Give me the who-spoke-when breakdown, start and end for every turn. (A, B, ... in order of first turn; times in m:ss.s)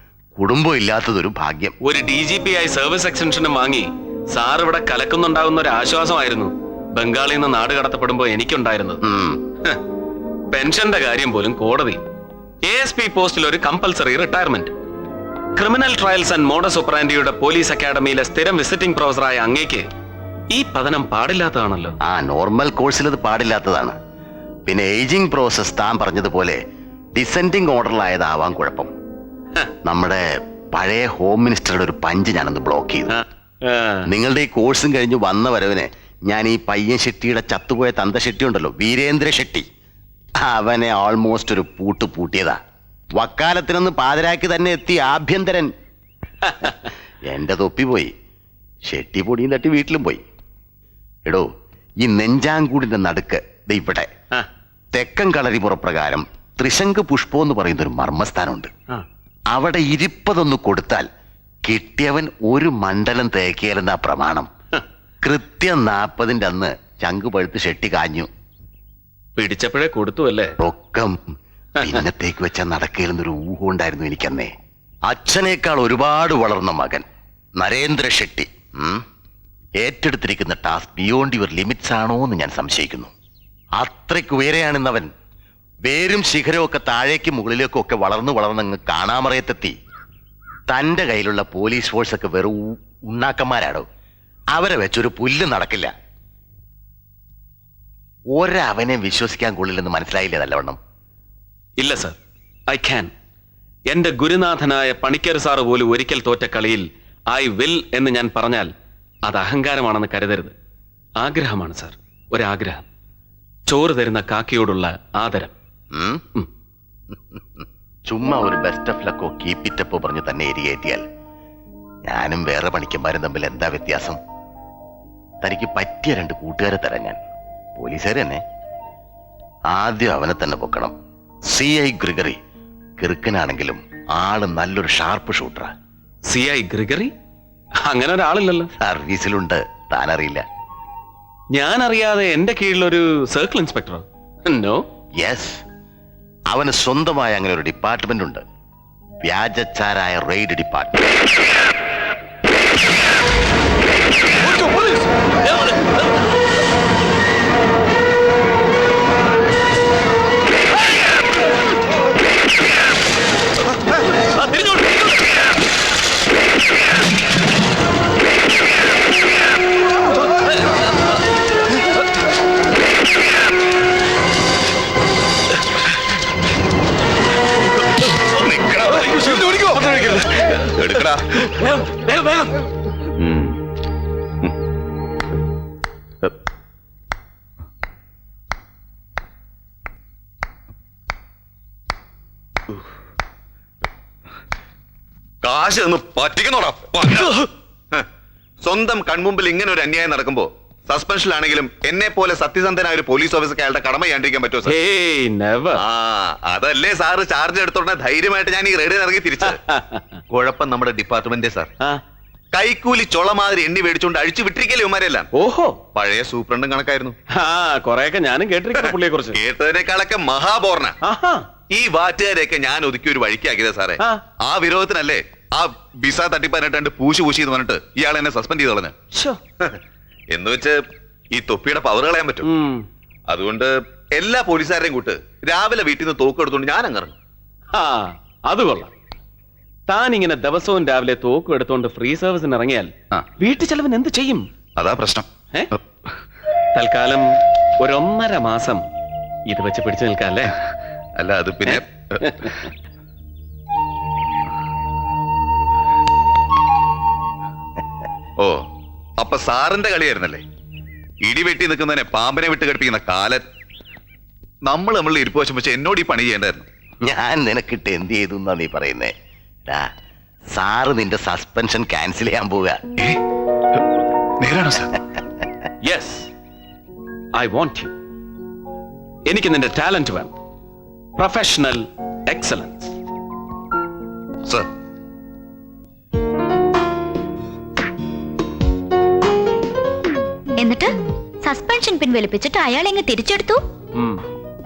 0:00.4-0:01.7 A
0:01.8-0:09.0 B
0:09.0-0:09.4 A
0:10.5-0:12.0 B
0:12.6-0:14.7 B
0:15.6-0:19.8 B
0:20.5-0:21.9 B
0:22.0-0:24.0 A
0:24.7-0:26.6 A
0:27.1-0:28.9 A
0:29.8-0:33.1 A
0:33.1-0:34.1 B
0:34.1-0:39.6 A
0:40.4-0:42.6 A
0:43.2-0:45.7 A
0:47.3-0:48.1 A
0:48.9-0:50.2 A
0:52.0-0:54.1 A
0:54.9-0:58.7 A
0:59.5-1:01.1 A
1:01.6-1:04.5 A
1:05.2-1:08.3 A
1:09.4-1:10.5 B
1:10.6-1:11.2 A
1:11.8-1:14.5 A
1:15.1-1:17.0 A
1:17.6-1:19.0 A
1:19.8-1:23.1 A
1:23.8-1:25.1 A
1:25.8-1:29.7 A
1:30.7-1:33.8 A
1:34.5-1:35.9 A
1:38.3-1:40.8 A
1:41.8-1:42.2 B
1:42.7-1:43.1 B
1:43.9-1:48.7 B
1:49.2-1:50.5 B
1:51.2-1:52.8 B
1:53.7-1:55.5 B
1:55.9-1:56.2 A
1:57.1-2:01.0 A
2:02.0-2:04.2 A
2:05.4-2:07.2 A
2:07.8-2:08.4 A
2:09.7-2:10.9 A
2:11.5-2:12.4 A
2:13.0-2:15.7 A
2:16.2-2:17.1 B
2:17.8-2:18.7 B
2:18.8-2:20.4 A
2:21.5-2:24.8 B
2:25.2-2:25.6 A
2:26.5-2:28.4 A
2:29.2-2:31.0 A
2:44.3-2:45.1 B
2:58.3-3:01.4 C
2:59.6-3:00.2 B
3:03.2-3:03.6 C
3:15.4-3:18.0 C
3:18.6-3:24.7 C
3:24.6-3:25.8 B
3:25.8-3:29.6 C
3:29.4-3:30.2 B
3:30.3-3:31.7 C
3:32.5-3:35.3 C
3:35.3-3:35.8 B
3:35.9-3:37.2 C
3:37.3-3:39.4 B
3:38.8-3:40.9 C
3:41.0-3:41.4 B
3:41.7-3:48.9 C
3:49.1-3:49.4 B
3:50.3-3:50.8 C
3:51.3-3:52.5 C
3:52.4-3:52.8 B
3:53.3-3:57.2 C
3:57.7-3:58.9 B
3:59.9-4:04.5 B
4:04.8-4:05.2 C
4:06.7-4:08.8 B
4:09.5-4:10.6 B
4:11.2-4:12.6 C
4:12.3-4:12.6 B
4:19.2-4:20.4 C
4:21.2-4:23.4 C
4:24.6-4:26.6 C
4:27.0-4:29.1 A
4:30.5-4:32.8 A
4:34.4-4:35.0 C
4:35.8-4:36.3 B
4:37.4-4:37.9 B
4:39.2-4:40.3 B
4:41.2-4:42.9 B
4:50.6-4:53.6 D